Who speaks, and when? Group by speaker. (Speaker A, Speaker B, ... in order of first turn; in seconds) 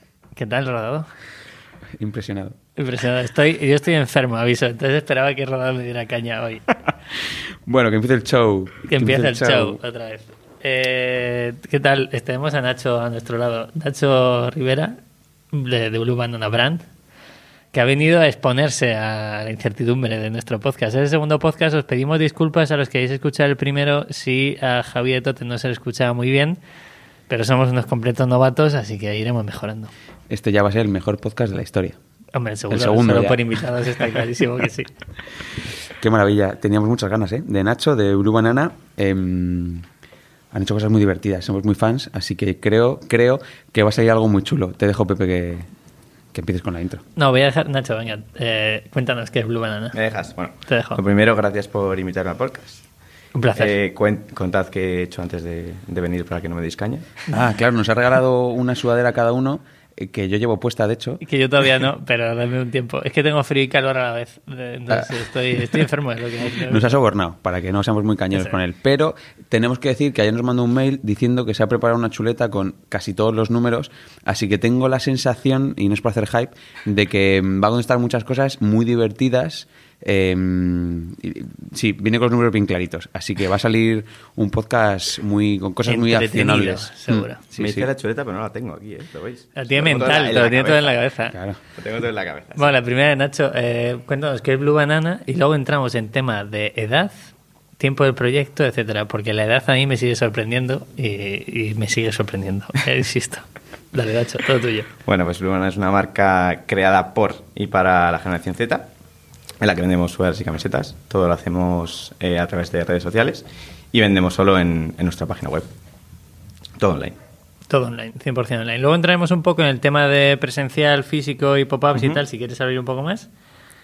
Speaker A: 0.3-1.1, 2.8-6.6, 8.9-15.0, 15.5-16.9, 17.7-26.6, 27.3-29.9, 32.3-34.9, 47.1-50.0, 50.7-51.0, 53.3-53.7, 61.2-66.9, 85.8-87.4, 89.6-91.3, 92.5-97.1, 97.8-104.9, 117.7-123.3
Speaker B: 2.0-2.5, 7.6-9.8, 30.3-31.9, 32.7-33.4, 36.0-39.9, 40.5-45.7, 46.3-47.0, 57.3-61.2, 66.7-87.9, 91.3-91.6
Speaker C: 49.9-52.8, 53.5-57.3, 87.6-90.9, 91.7-92.7, 105.0-108.9, 109.6-115.7, 116.8-117.1, 121.9-122.2